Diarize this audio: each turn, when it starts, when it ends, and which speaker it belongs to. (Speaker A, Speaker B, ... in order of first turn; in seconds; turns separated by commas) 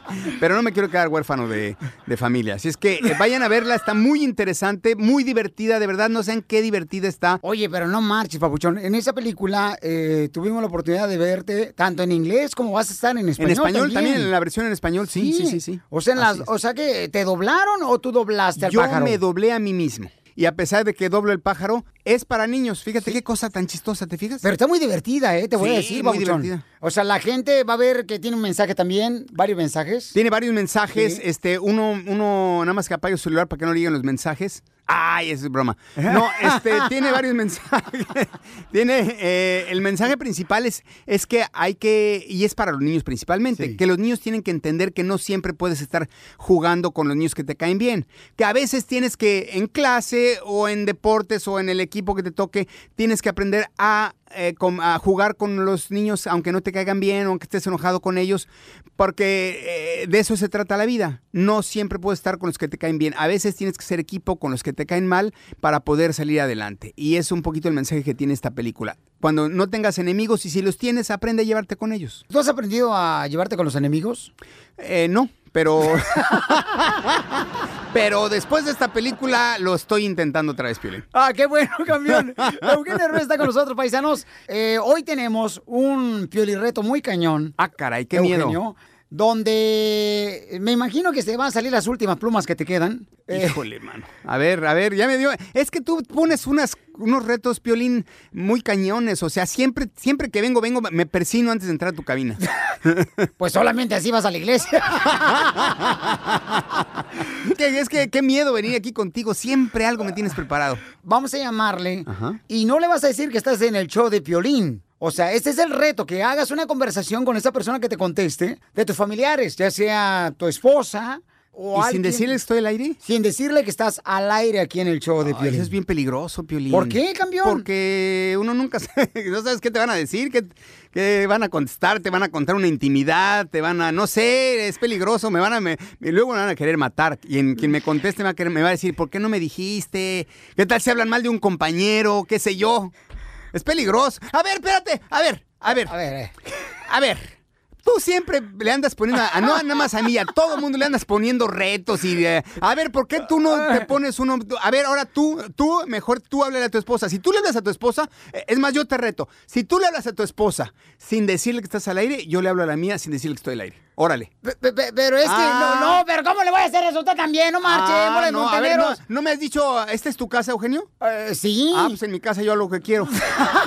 Speaker A: 0.3-7.4, Speaker B: 7.4-14.3, Speaker A: 13.4-16.4, Speaker B: 15.1-19.2, Speaker A: 18.6-24.4, Speaker B: 24.4-30.1, Speaker A: 25.6-26.6, Speaker A: 30.1-72.2, Speaker B: 30.9-31.2, Speaker B: 36.1-36.8, Speaker B: 72.3-74.3, Speaker A: 74.8-76.5, Speaker A: 77.9-81.0, Speaker B: 81.1-87.5, Speaker A: 87.6-88.6, Speaker B: 88.1-93.6, Speaker A: 93.3-103.2, Speaker B: 103.4-105.7, Speaker A: 107.4-110.8, Speaker B: 111.0-122.4, Speaker A: 112.1-112.4, Speaker A: 121.7-123.0, Speaker B: 123.0-125.7, Speaker A: 125.2-142.9, Speaker B: 126.7-127.6, Speaker A: 143.5-145.9, Speaker B: 145.7-146.3, Speaker A: 146.9-164.3, Speaker B: 164.4-169.0, Speaker A: 165.2-166.0, Speaker A: 167.7-170.9, Speaker B: 171.0-172.0, Speaker A: 171.7-173.1